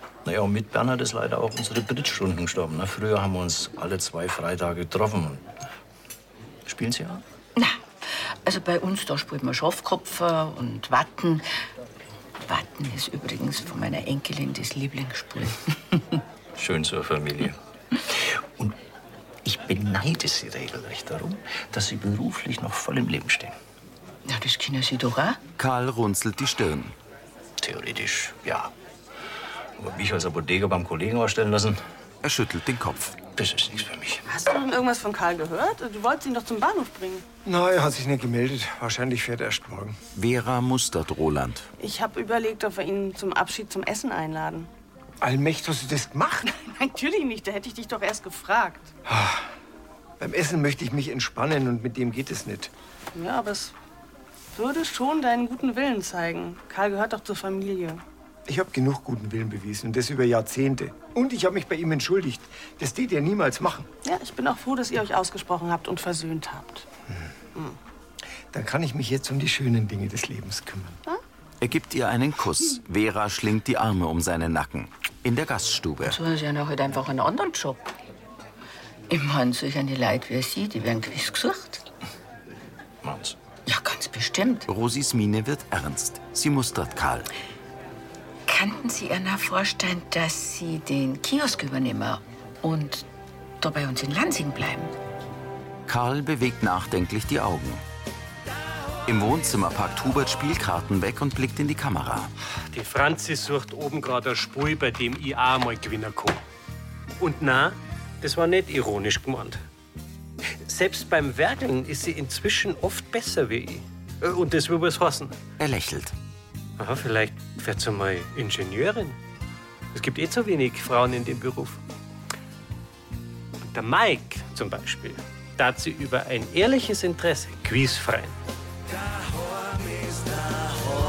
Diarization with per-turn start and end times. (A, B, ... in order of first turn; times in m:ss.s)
0:00.2-0:05.5 A
0:06.7-0:07.2 A
0:08.4-0:11.5 B
0:12.5-0:15.6 B
0:16.6-0:17.6 A
0:19.4-0:23.6 A
0:24.3-0:25.4 B
0:25.6-0:27.0 C
0:27.6-0:28.7 A
0:29.8-0:31.8 A
0:32.2-0:33.2 C
0:33.4-0:34.2 A
0:34.3-0:37.2 D
0:37.4-0:40.0 E
0:40.2-0:41.7 C
0:41.8-0:44.7 D
0:45.2-0:46.6 E
0:46.7-0:48.9 D
0:49.1-0:49.5 E
0:50.2-0:52.7 E
0:53.1-0:53.7 D
0:54.5-0:58.0 D
0:58.5-1:03.9 E
1:04.0-1:06.9 D
1:08.5-1:11.0 E
1:11.6-1:16.2 C
1:16.0-1:17.9 B
1:19.1-1:21.8 B
1:23.0-1:23.4 A
1:23.7-1:24.7 B
1:24.7-1:27.3 C
1:28.5-1:33.1 B
1:33.6-1:34.9 B
1:35.9-1:37.8 C
1:39.1-1:42.3 C
1:42.7-1:46.4 F
1:47.2-1:49.6 F
1:50.6-1:55.4 F
1:55.6-1:56.1 C
1:56.8-1:59.2 F
1:59.9-2:01.8 F
2:03.6-2:08.4 F